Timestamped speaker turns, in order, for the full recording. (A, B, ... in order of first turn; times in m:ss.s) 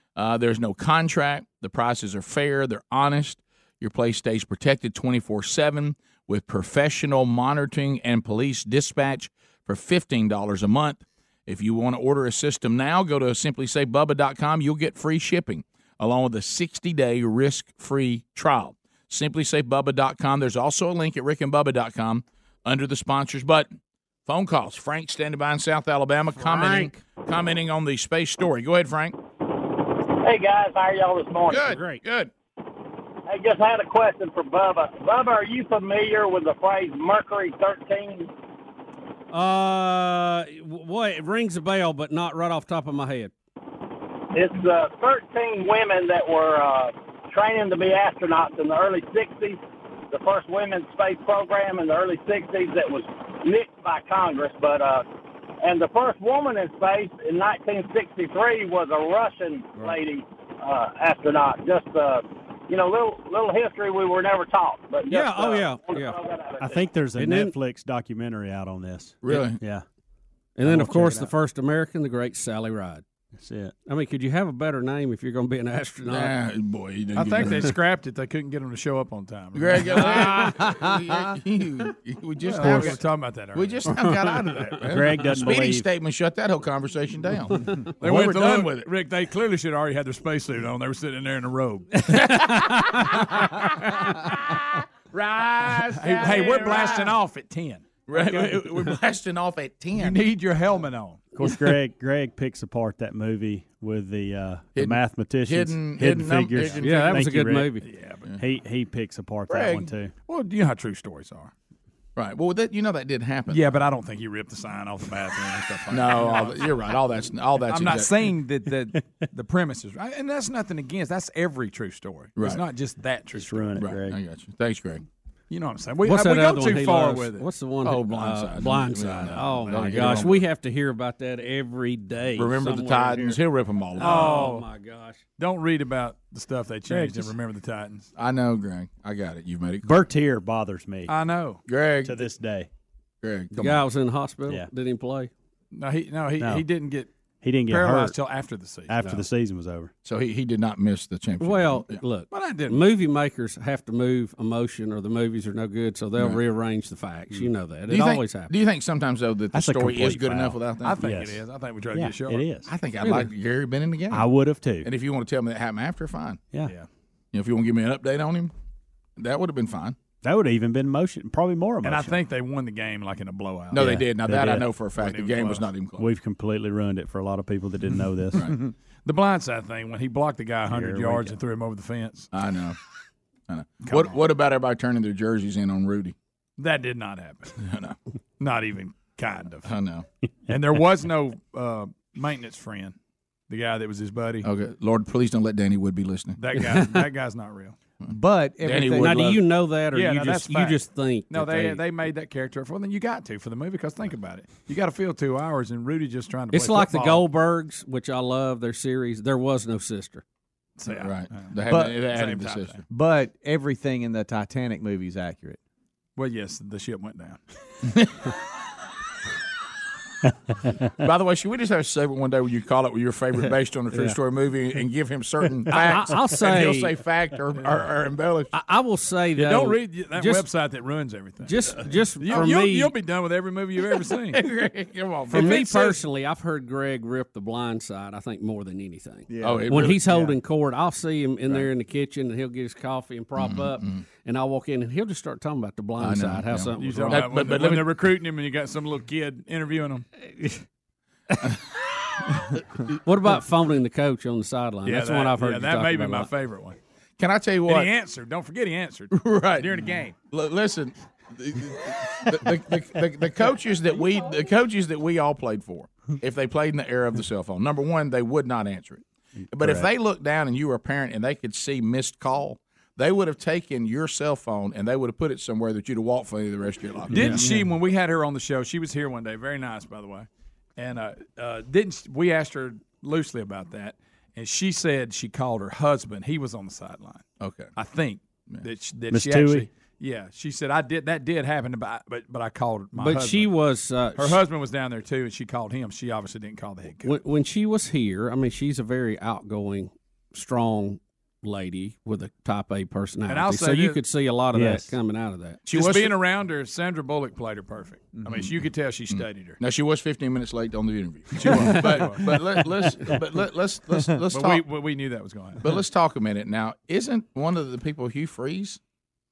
0:00.2-0:23.7 A
0:24.2-0:29.2 A
0:26.4-0:26.9 B
0:30.2-0:31.7 C
0:31.5-0:32.3 A
0:31.6-0:32.0 B
0:33.3-0:38.3 C
0:39.3-0:43.3 B
0:44.3-0:49.6 C
0:50.1-0:55.0 C
0:55.6-1:06.8 C
1:05.1-1:06.1 B
1:06.6-1:09.8 D
1:07.2-1:07.5 B
1:09.2-1:09.6 A
1:10.6-1:13.0 B
1:10.6-1:11.3 D
1:13.4-1:13.7 D
1:13.8-1:16.3 B
1:16.0-1:17.7 A
1:17.1-1:20.4 E
1:19.5-1:23.0 A
1:22.4-1:23.8 E
1:23.5-1:28.9 A
1:24.8-1:25.9 D
1:28.0-1:32.1 E
1:32.2-1:34.1 A
1:35.1-1:37.2 A
1:35.7-1:38.6 E
1:38.1-1:40.2 A
1:39.9-1:41.3 E
1:41.3-1:47.8 D
1:44.8-1:47.2 A
1:46.8-1:47.8 B
1:47.8-1:48.3 E
1:48.4-1:50.1 D
1:49.5-1:49.9 A
1:50.2-1:51.5 E
1:52.2-1:53.8 A
1:53.5-1:56.8 E
1:55.9-1:58.3 A
1:57.6-2:03.7 E
2:02.4-2:02.6 A
2:03.3-2:04.2 D
2:03.8-2:05.0 A
2:05.5-2:07.5 E
2:06.0-2:13.4 B
2:07.8-2:10.4 A
2:09.7-2:10.3 E
2:12.4-2:14.4 A
2:14.0-2:15.2 B
2:14.0-2:14.7 E
2:15.4-2:18.1 E
2:18.1-2:20.0 A
2:19.8-2:21.1 D
2:21.1-2:21.6 E
2:21.7-2:22.2 A
2:22.0-2:22.7 D
2:23.2-2:23.8 A
2:23.5-2:25.3 B
2:25.7-2:27.1 E
2:26.4-2:26.6 D
2:27.4-2:28.2 D
2:27.7-2:29.0 E
2:28.9-2:29.9 D
2:30.0-2:32.0 A
2:31.4-2:38.5 B
2:32.3-2:32.8 E
2:37.9-2:41.0 A
2:39.5-2:43.3 D
2:40.8-2:42.5 E
2:42.6-2:44.3 A
2:44.1-2:44.9 D
2:44.8-2:46.4 A
2:47.3-2:48.5 A
2:49.2-2:50.0 A
2:50.2-2:52.2 D
2:51.8-2:54.0 E
2:53.7-2:56.1 A
2:53.7-2:54.7 D
2:54.9-2:55.7 E
2:56.0-2:58.5 D
2:59.0-3:02.3 E
3:00.7-3:01.4 D
3:02.3-3:02.8 A
3:03.5-3:06.2 A
3:03.9-3:04.1 E
3:06.6-3:07.6 E
3:07.6-3:08.0 A
3:08.4-3:09.7 E
3:09.6-3:10.0 A
3:10.5-3:13.0 E
3:13.5-3:14.5 E
3:14.4-3:16.4 A
3:16.4-3:17.8 E
3:18.0-3:19.4 A
3:18.1-3:19.4 F
3:19.0-3:21.8 B
3:19.9-3:27.2 E
3:26.5-3:30.2 B
3:30.8-3:32.8 E
3:30.9-3:32.8 A
3:31.7-3:32.0 F
3:32.9-3:35.6 F
3:36.2-3:37.4 E
3:37.8-3:38.1 A
3:41.0-3:48.5 A
3:45.7-3:46.9 B
3:48.5-3:50.5 B
3:49.4-3:54.4 E
3:51.4-3:52.9 B
3:54.0-3:56.0 A
3:55.3-4:07.3 B
3:59.3-4:00.3 F
3:59.4-4:00.0 A
4:03.4-4:04.0 A
4:06.0-4:07.9 A
4:06.8-4:10.0 E
4:10.3-4:10.6 B
4:13.0-4:16.3 B
4:14.8-4:16.8 E
4:17.2-4:17.9 A
4:17.6-4:20.2 E
4:19.1-4:37.5 A
4:29.5-4:29.9 D
4:37.1-4:37.7 D
4:37.1-4:53.5 E
4:47.4-4:47.7 A
4:49.1-4:49.7 D
4:52.9-4:54.4 B
4:54.2-4:57.2 E
4:57.0-5:05.6 B
5:03.3-5:04.0 E
5:04.5-5:04.9 D
5:05.7-5:06.2 A
5:05.7-5:09.6 E
5:08.2-5:08.4 F
5:09.1-5:14.7 A
5:11.4-5:12.3 E
5:11.7-5:12.4 D
5:14.3-5:15.8 E
5:15.6-5:18.8 A